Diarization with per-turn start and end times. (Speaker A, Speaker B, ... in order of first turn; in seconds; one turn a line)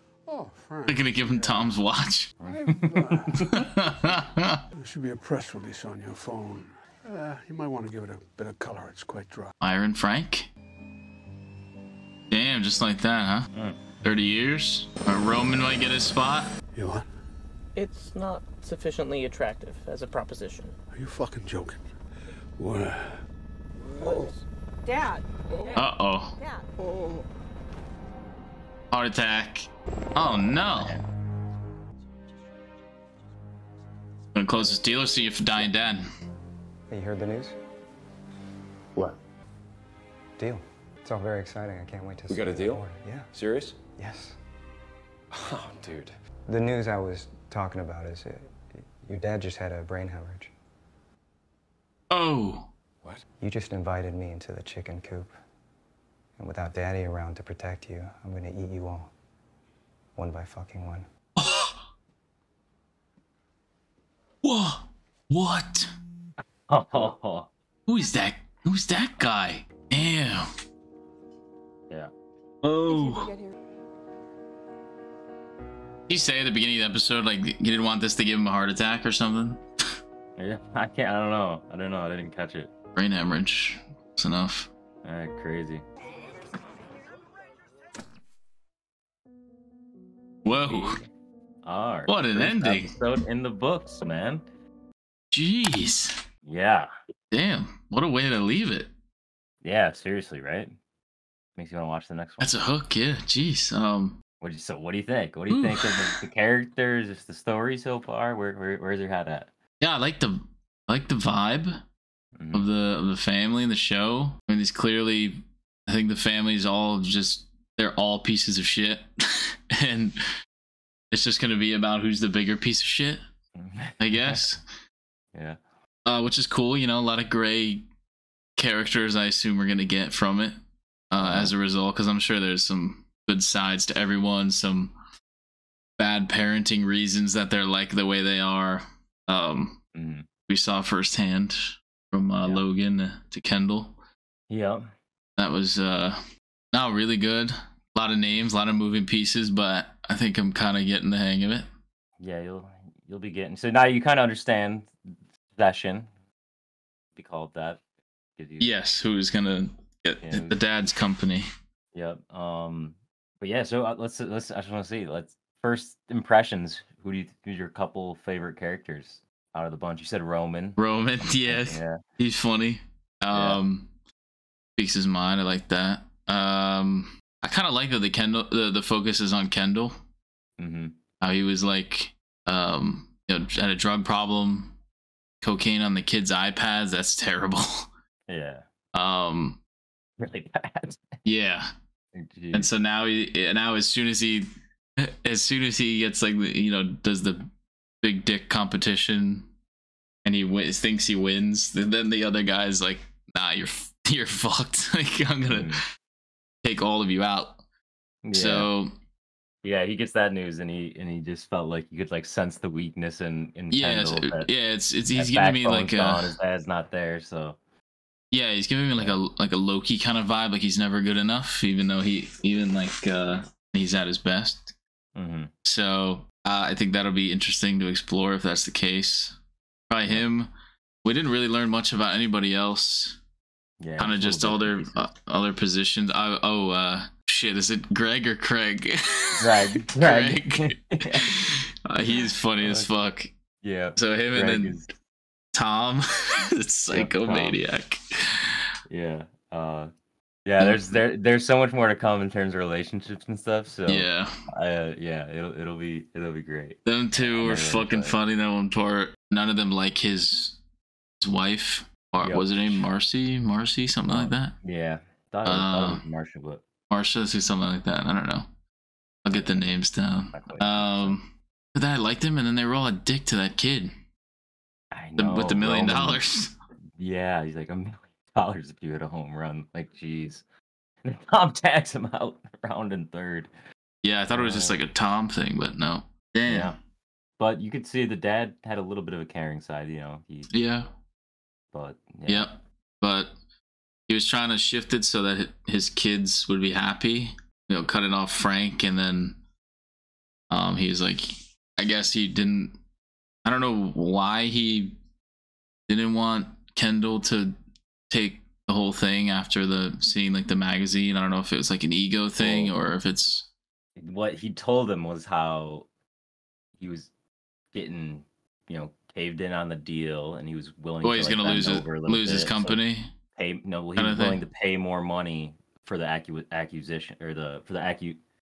Speaker A: 0.2-1.7
Speaker B: 0.9-2.3
Speaker C: 2.4-3.5
Speaker A: 2.4-3.7
Speaker B: 3.5-4.6
Speaker A: 4.7-9.5
Speaker B: 9.6-10.5
Speaker B: 12.3-13.5
Speaker B: 14.0-16.5
Speaker A: 16.7-17.1
Speaker D: 17.7-20.7
Speaker A: 20.9-21.8
Speaker A: 22.6-23.2
Speaker E: 24.0-24.2
Speaker F: 24.0-24.3
Speaker E: 24.8-26.6
Speaker B: 25.7-26.3
Speaker B: 28.9-30.9
Speaker C: 30.7-31.0
Speaker B: 34.3-36.0
Speaker G: 36.9-37.6
Speaker G: 40.4-43.3
Speaker F: 42.3-43.8
Speaker G: 44.0-44.4
Speaker F: 45.3-46.1
Speaker G: 46.5-50.5
Speaker B: 52.1-52.7
Speaker G: 53.4-55.3
Speaker G: 56.4-59.1
Speaker G: 60.1-61.1
Speaker B: 61.4-61.7
Speaker B: 64.4-65.9
Speaker C: 66.7-67.5
Speaker B: 67.8-70.5
Speaker B: 72.6-73.3
Speaker E: 72.9-73.5
Speaker B: 76.1-79.6
Speaker C: 80.4-82.7
Speaker B: 82.9-84.7
Speaker C: 85.0-85.8
Speaker B: 90.4-91.0
Speaker C: 90.7-91.1
Speaker C: 91.6-94.4
Speaker B: 92.1-92.9
Speaker B: 95.3-96.2
Speaker C: 96.5-96.9
Speaker B: 97.3-98.9
Speaker C: 99.6-100.7
Speaker C: 101.6-102.5
Speaker B: 102.4-104.2
Speaker C: 104.4-109.5
Speaker B: 105.5-106.0
Speaker B: 109.8-111.8
Speaker C: 112.3-112.7
Speaker B: 112.5-120.2
Speaker B: 121.1-123.2
Speaker C: 123.5-124.4
Speaker B: 124.0-124.6
Speaker C: 125.3-125.6
Speaker B: 126.0-127.8
Speaker B: 128.6-130.6
Speaker B: 131.1-134.9
Speaker C: 131.2-131.5
Speaker B: 136.0-139.8
Speaker C: 139.9-140.3
Speaker B: 140.5-144.0
Speaker C: 144.5-144.9
Speaker B: 145.4-146.2
Speaker B: 146.7-151.7
Speaker C: 152.2-156.1
Speaker C: 157.2-157.8
Speaker C: 158.4-158.7
Speaker B: 158.6-161.5
Speaker C: 160.2-160.6
Speaker C: 161.9-172.0
Speaker B: 170.8-173.9
Speaker C: 173.3-173.6
Speaker B: 174.8-180.0
Speaker C: 180.6-180.9
Speaker B: 181.2-184.7
Speaker B: 185.4-187.9
Speaker C: 188.3-188.6
Speaker B: 188.9-189.6
Speaker C: 190.2-191.2
Speaker B: 191.2-191.7
Speaker C: 192.1-192.7
Speaker B: 192.5-197.5
Speaker B: 198.0-199.5
Speaker B: 200.2-205.8
Speaker C: 205.5-205.8
Speaker B: 206.6-207.6
Speaker C: 208.2-208.7
Speaker B: 208.3-208.9
Speaker C: 209.6-214.5
Speaker B: 213.7-216.3
Speaker C: 215.1-217.6
Speaker B: 218.3-224.7
Speaker C: 225.1-225.5
Speaker B: 225.6-229.3
Speaker B: 229.9-230.5
Speaker B: 231.0-233.2
Speaker C: 233.8-235.1
Speaker B: 234.0-243.3
Speaker C: 239.4-241.3
Speaker C: 242.6-242.9
Speaker C: 243.6-244.9
Speaker B: 243.9-244.8
Speaker B: 245.5-248.6
Speaker C: 246.9-247.6
Speaker C: 248.9-249.9
Speaker C: 250.4-258.2
Speaker B: 250.6-250.9
Speaker B: 253.9-254.4
Speaker B: 256.9-260.6
Speaker B: 261.2-264.5
Speaker C: 262.2-262.8
Speaker C: 264.1-266.6
Speaker B: 265.4-266.0
Speaker B: 266.9-268.5
Speaker B: 269.2-273.9
Speaker C: 269.3-269.8
Speaker C: 270.3-271.2
Speaker C: 274.9-276.2
Speaker B: 275.2-276.5
Speaker C: 277.0-280.4
Speaker C: 281.0-283.5
Speaker B: 284.0-286.7
Speaker C: 284.3-284.8
Speaker C: 286.5-286.8
Speaker C: 287.4-290.5
Speaker B: 290.5-290.9
Speaker C: 291.7-292.5
Speaker B: 292.3-293.3
Speaker B: 294.1-299.4
Speaker B: 300.5-302.8
Speaker B: 303.4-304.9
Speaker B: 305.9-307.6
Speaker B: 308.1-313.5
Speaker C: 312.4-312.7
Speaker C: 314.0-315.9
Speaker C: 316.8-317.1
Speaker C: 317.7-322.8
Speaker B: 321.0-323.1
Speaker C: 323.4-328.2
Speaker B: 324.0-324.4